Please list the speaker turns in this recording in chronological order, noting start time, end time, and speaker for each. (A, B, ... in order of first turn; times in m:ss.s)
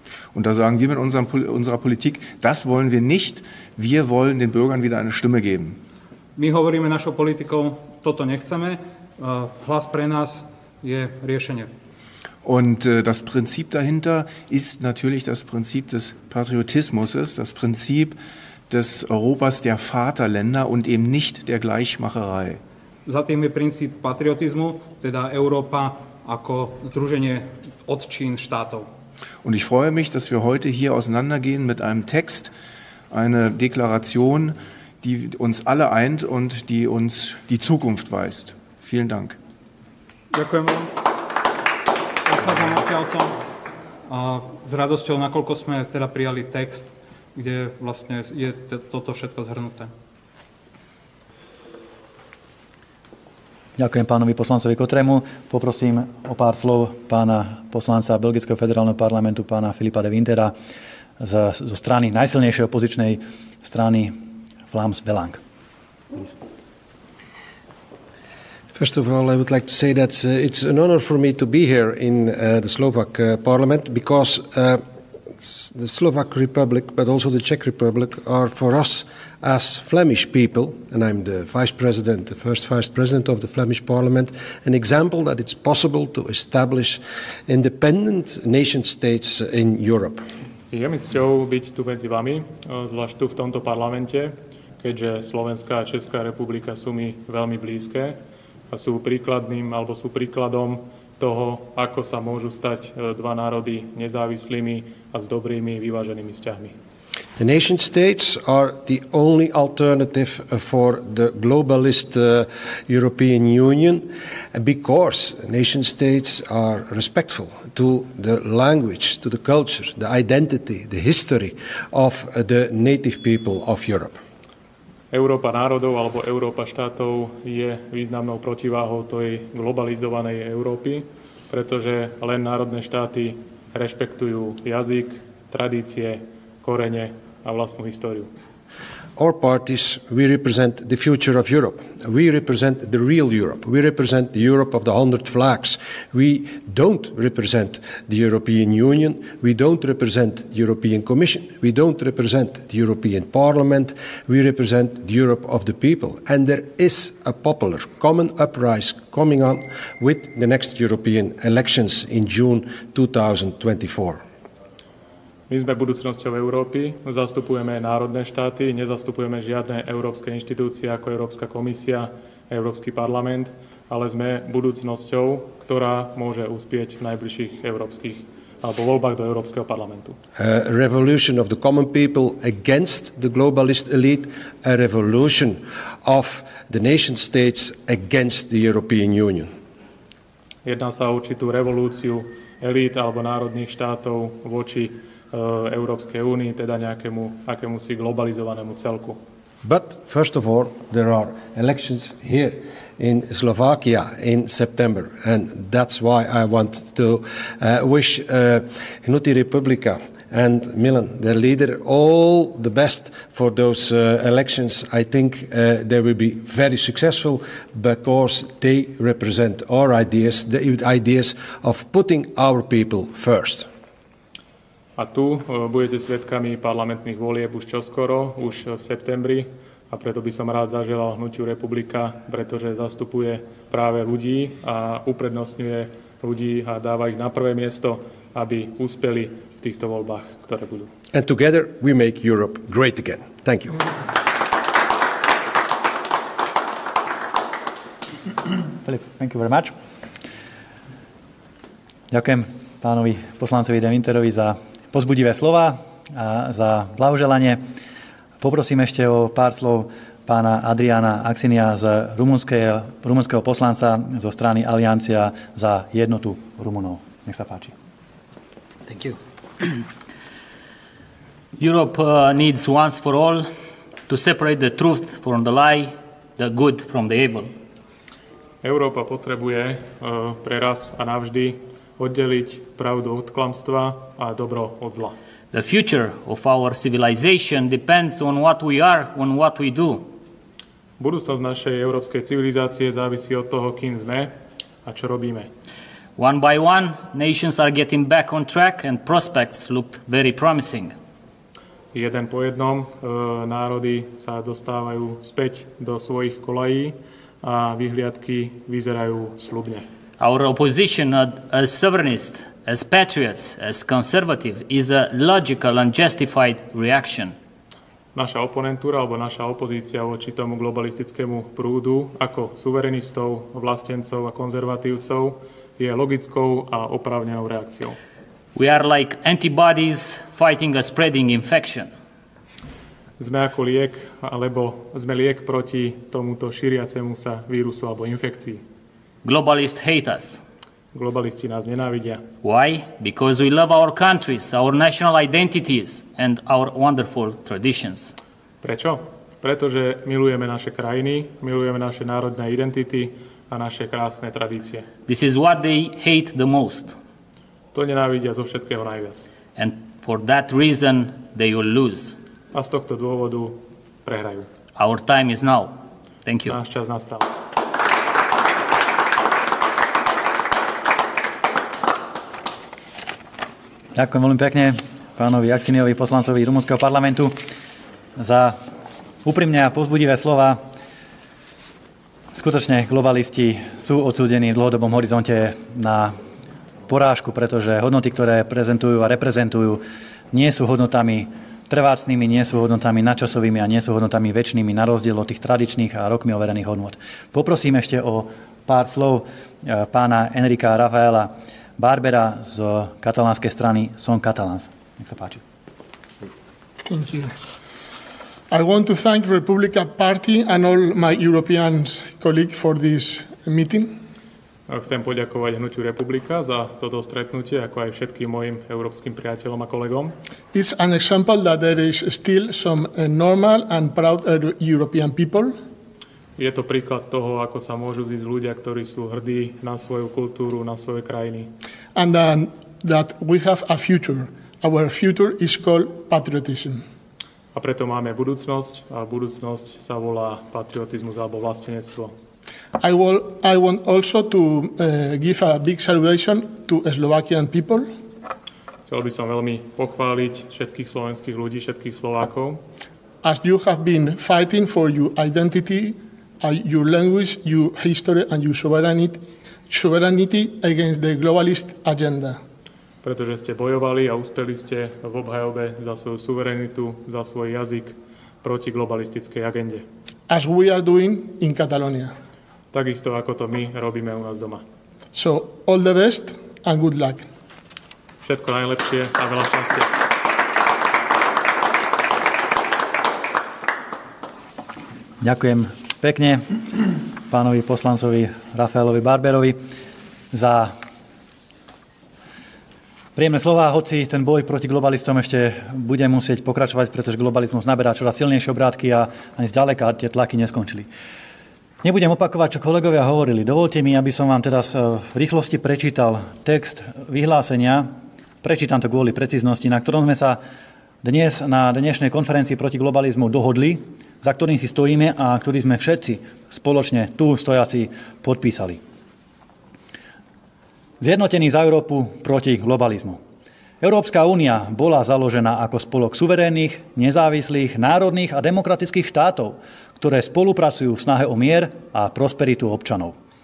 0:00.3-0:05.8 A
0:06.4-0:11.7 B
0:12.4-0:18.2 A
0:18.7-0:22.6 A
0:23.1-0:28.9 B
0:29.4-0:32.5 A
0:33.1-0:39.4 A
0:40.3-0:41.0 B
0:42.2-0:43.4 B
0:44.1-0:49.9 B
0:53.8-1:00.6 C
1:01.2-1:04.2 C
1:04.7-1:05.4 C
1:08.7-1:14.8 D
1:15.4-1:30.3 D
1:30.7-1:38.2 E
1:38.7-1:46.8 E
1:47.4-2:04.2 D
2:05.1-2:18.3 E
2:19.2-2:44.2 D
2:45.5-3:00.2 E
3:00.4-3:09.5 D
3:10.6-3:19.2 E
3:19.6-3:43.7 D
3:45.0-4:00.9 E
4:01.1-4:03.8 D
4:08.8-4:09.7 C
4:12.1-4:17.6 C
4:18.4-4:27.7 C
4:28.9-4:29.2 F
4:31.6-4:33.5 F
4:34.1-4:37.6 F
4:38.6-4:45.2 E
4:45.5-4:50.1 F
4:51.0-4:54.3 E
4:54.8-4:55.5 E
4:56.2-5:01.0 F
5:01.9-5:09.9 E
5:10.2-5:17.4 F
5:18.2-5:28.0 E
5:28.6-5:31.9 F
5:33.2-5:38.6 E
5:39.2-5:40.4 F
5:40.9-5:42.3 E
5:42.4-5:48.2 F
5:48.6-5:54.9 E
5:55.1-5:57.0 F
5:57.7-5:59.3 E
5:59.6-6:02.2 F
6:02.5-6:04.5 E
6:04.8-6:06.6 F
6:06.5-6:07.3 E
6:14.0-6:17.4 C
6:18.2-6:18.6 C
6:19.2-6:20.6 C
6:22.4-6:26.2 C
6:26.9-6:45.4 C
6:46.8-6:47.3 G
6:48.5-6:54.0 G
6:54.7-7:00.2 E
7:00.5-7:05.6 G
7:06.4-7:11.5 E
7:12.0-7:16.8 G
7:17.5-7:22.1 E
7:22.8-7:27.9 G
7:28.9-7:32.6 E
7:33.2-7:42.4 G
7:43.0-7:49.9 E
7:50.3-7:52.2 G
7:52.7-7:54.6 E
7:55.1-7:57.3 G
7:58.2-8:00.0 E
8:05.2-8:09.6 C
8:10.3-8:10.7 C
8:13.2-8:20.9 C
8:21.8-8:27.9 C
8:28.4-8:30.4 C
8:31.0-8:38.8 C
8:41.0-8:43.2 C
8:43.8-8:53.2 C